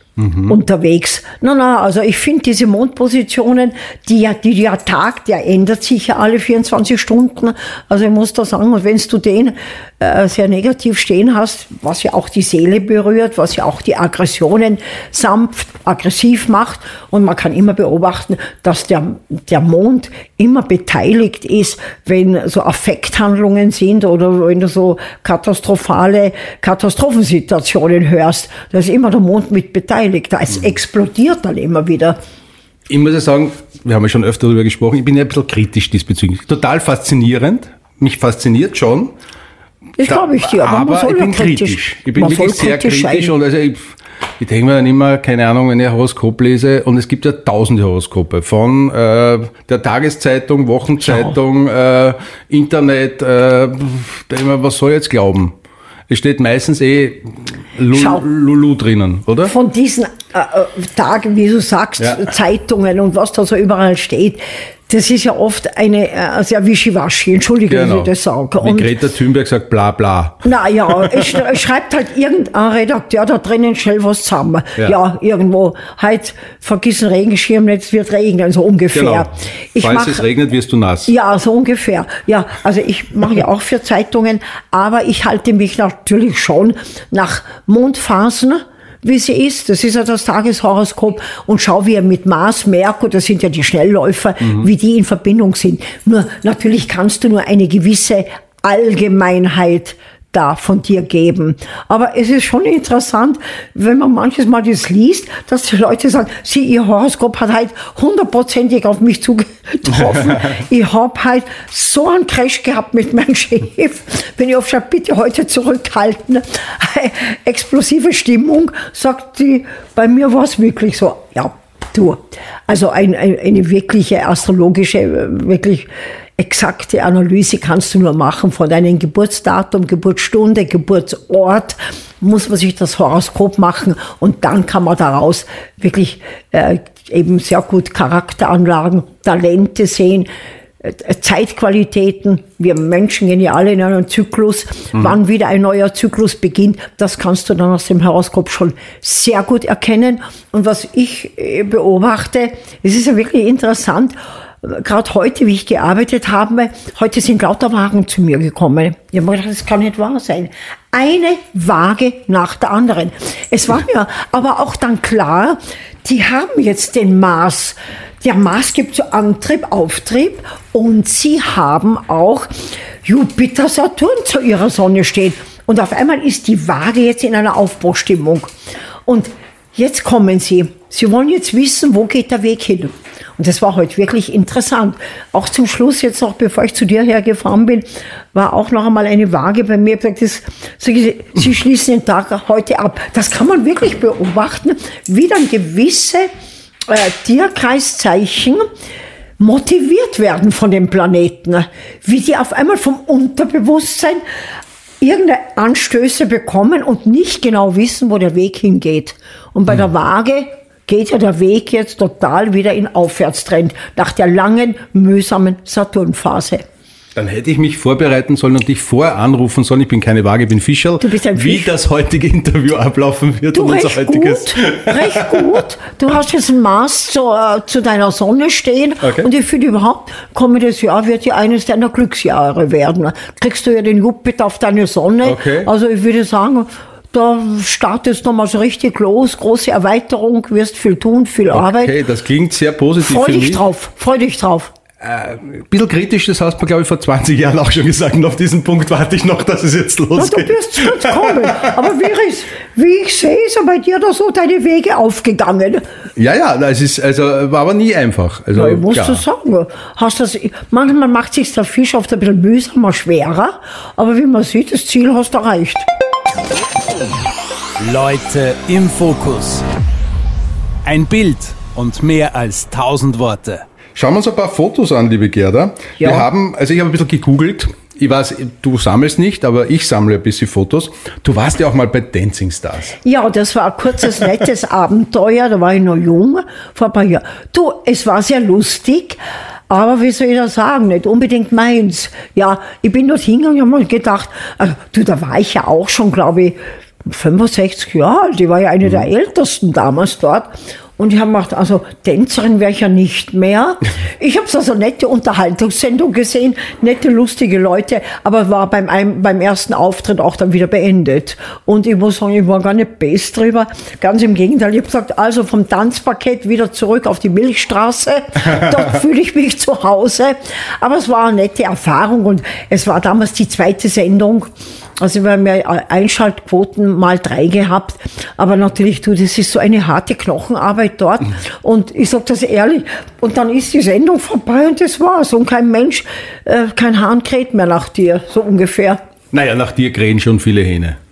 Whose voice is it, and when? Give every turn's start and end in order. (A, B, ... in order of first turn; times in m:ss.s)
0:00.2-0:00.6 A
0:00.5-0:32.2 B
0:32.9-0:39.1 A
0:40.0-0:43.3 B
0:40.0-0:55.6 A
0:51.1-0:51.3 B
0:56.1-0:59.5 A
0:57.9-0:58.2 B
0:59.4-1:09.0 B
1:02.0-1:02.3 A
1:07.7-1:11.4 A
1:10.4-1:20.2 B
1:18.9-1:21.1 A
1:21.1-2:20.3 B
2:20.8-2:58.5 B
2:59.1-3:16.3 B
3:16.9-3:18.7 B
3:19.4-3:24.2 B
3:25.0-3:36.7 B
3:37.2-3:45.6 A
3:41.0-3:41.7 B
3:43.5-4:02.0 B
3:49.0-3:49.3 A
3:55.2-3:55.7 A
4:01.5-4:03.6 A
4:03.0-4:04.7 B
4:05.0-4:11.7 A
4:10.2-4:15.8 B
4:16.2-4:19.2 A
4:18.6-4:25.9 B
4:27.8-4:29.6 C
4:30.8-4:33.6 C
4:34.0-4:43.0 A
4:36.0-4:36.3 B
4:43.0-5:24.5 B
5:25.0-5:39.0 B
5:39.3-5:41.0 A